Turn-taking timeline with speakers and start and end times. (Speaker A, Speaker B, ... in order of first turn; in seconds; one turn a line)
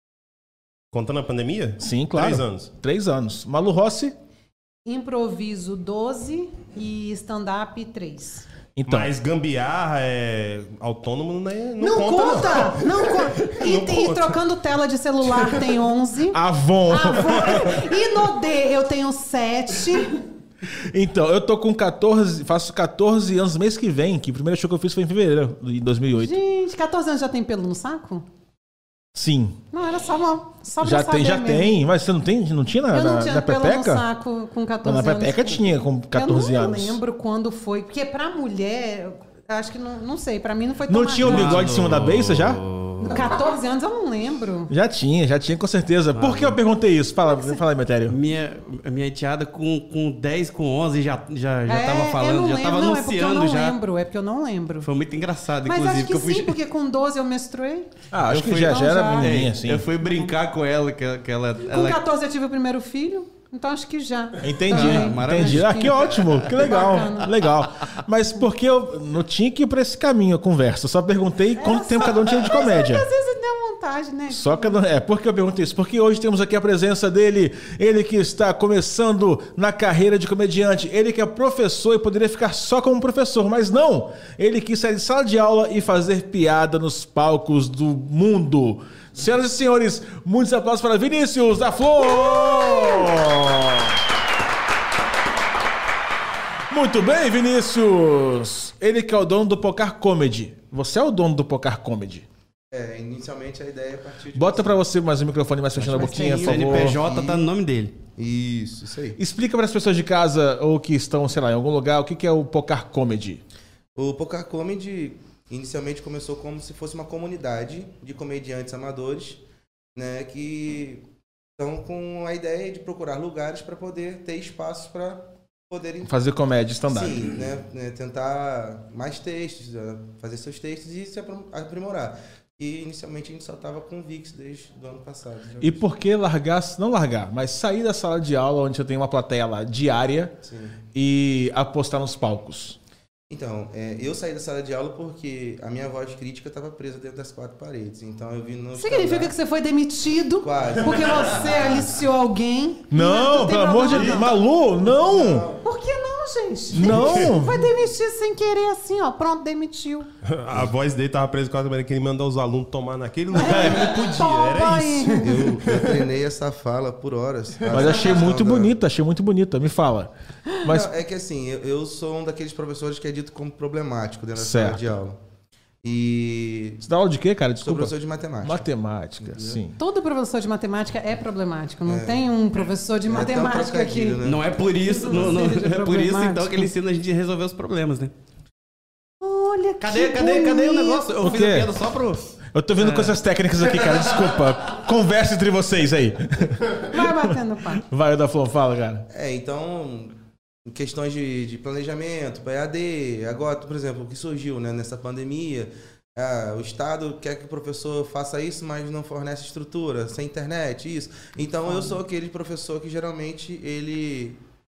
Speaker A: 0.9-2.7
Speaker B: 1.8-4.2
Speaker C: 4.9-8.5
Speaker B: 8.8-9.1
Speaker A: 8.9-14.4
Speaker C: 11.8-20.2
Speaker A: 15.4-15.7
Speaker B: 16.3-17.7
Speaker B: 20.7-26.4
Speaker C: 26.2-28.2
Speaker B: 29.1-29.6
Speaker C: 29.7-31.8
Speaker B: 30.8-34.0
Speaker C: 32.9-35.6
Speaker B: 34.8-37.0
Speaker C: 36.1-41.7
Speaker B: 40.9-42.6
Speaker D: 41.2-43.3
Speaker C: 43.0-44.7
Speaker B: 44.7-48.2
Speaker D: 46.1-46.6
Speaker C: 47.2-47.6
Speaker D: 48.1-53.8
Speaker C: 51.7-54.9
Speaker D: 54.8-56.6
Speaker C: 55.6-57.9
Speaker B: 58.1-59.9
Speaker D: 58.3-62.1
Speaker C: 58.5-59.3
Speaker C: 61.6-67.3
Speaker B: 64.4-73.0
Speaker D: 64.7-66.9
Speaker C: 71.6-74.8
Speaker B: 74.3-94.0
Speaker C: 92.0-93.1
Speaker B: 96.7-102.3
Speaker E: 102.7-104.8
Speaker B: 104.3-107.0
Speaker E: 105.8-107.5
Speaker C: 106.0-106.3
Speaker D: 106.2-108.0
Speaker E: 108.2-109.2
Speaker B: 109.2-113.4
Speaker E: 114.0-119.4
Speaker E: 120.0-121.0
Speaker E: 121.6-126.1
Speaker B: 126.0-127.3
Speaker E: 126.9-135.8
Speaker B: 135.6-140.4
Speaker E: 140.4-140.8
Speaker B: 140.9-142.8
Speaker E: 143.3-149.3
Speaker C: 148.8-154.4
Speaker E: 150.4-152.0
Speaker B: 152.9-155.5
Speaker E: 154.8-155.7
Speaker C: 155.6-160.1
Speaker B: 156.7-157.7
Speaker A: 156.8-157.2
Speaker A: 160.2-166.0
Speaker C: 163.3-165.5
Speaker B: 163.4-163.9
Speaker E: 165.2-168.7
Speaker B: 167.7-170.1
Speaker B: 170.6-170.9
Speaker E: 170.6-175.2
Speaker B: 174.3-175.0
Speaker E: 175.8-176.9
Speaker B: 176.8-179.8
Speaker E: 177.6-178.7
Speaker E: 179.2-179.6
Speaker C: 179.8-184.2
Speaker E: 181.9-182.2
Speaker E: 183.1-184.6
Speaker D: 184.2-188.1
Speaker C: 184.8-186.7
Speaker C: 189.2-191.3
Speaker D: 189.8-193.2
Speaker B: 191.2-191.7
Speaker B: 192.6-199.1
Speaker C: 196.8-197.8
Speaker E: 199.1-214.4